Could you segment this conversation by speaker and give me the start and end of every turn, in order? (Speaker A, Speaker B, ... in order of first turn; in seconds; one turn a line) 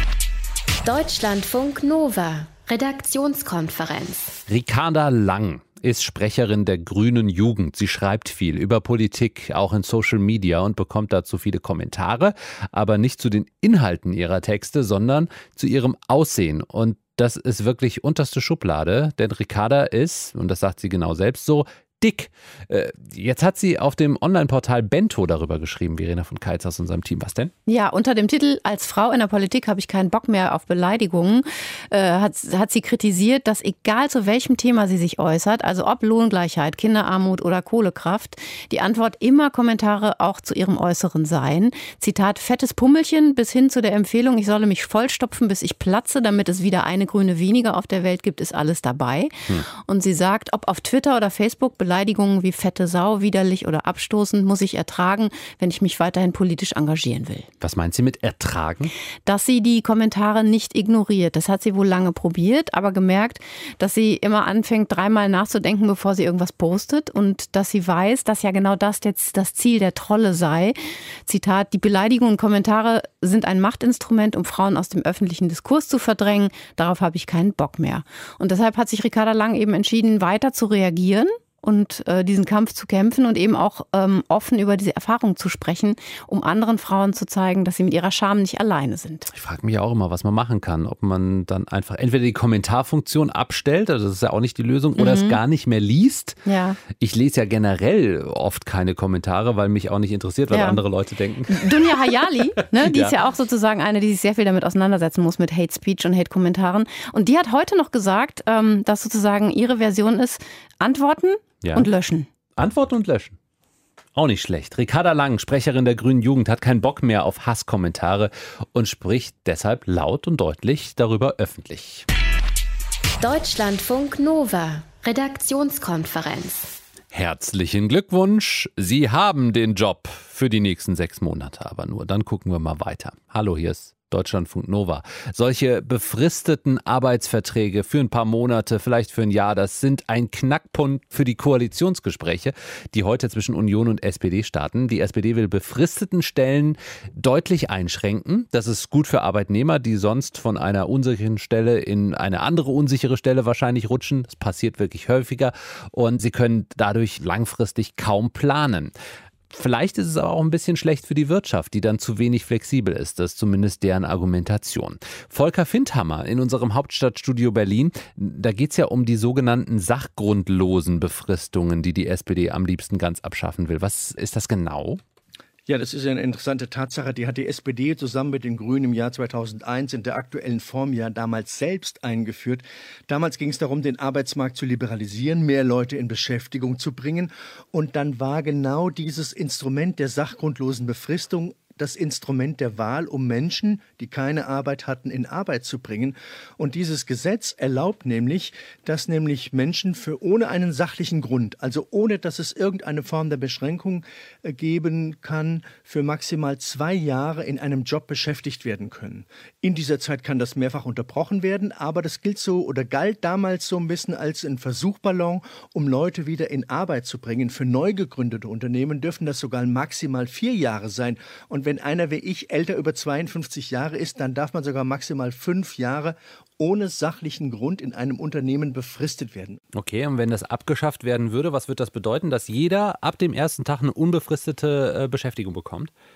Speaker A: 0.8-4.4
Speaker B: 4.5-27.5
Speaker C: 27.7-57.5
Speaker B: 57.6-58.9
Speaker C: 59.3-89.3
Speaker B: 89.3-96.4
Speaker C: 95.0-95.4
Speaker C: 96.5-96.8
Speaker B: 96.9-103.2
Speaker C: 100.5-100.8
Speaker C: 101.5-112.3
Speaker B: 111.6-111.9
Speaker B: 112.6-113.4
Speaker B: 114.2-122.1
Speaker A: 123.2-126.8
Speaker B: 127.1-158.9
Speaker B: 159.5-175.0
Speaker D: 175.7-229.6
Speaker B: 229.7-235.9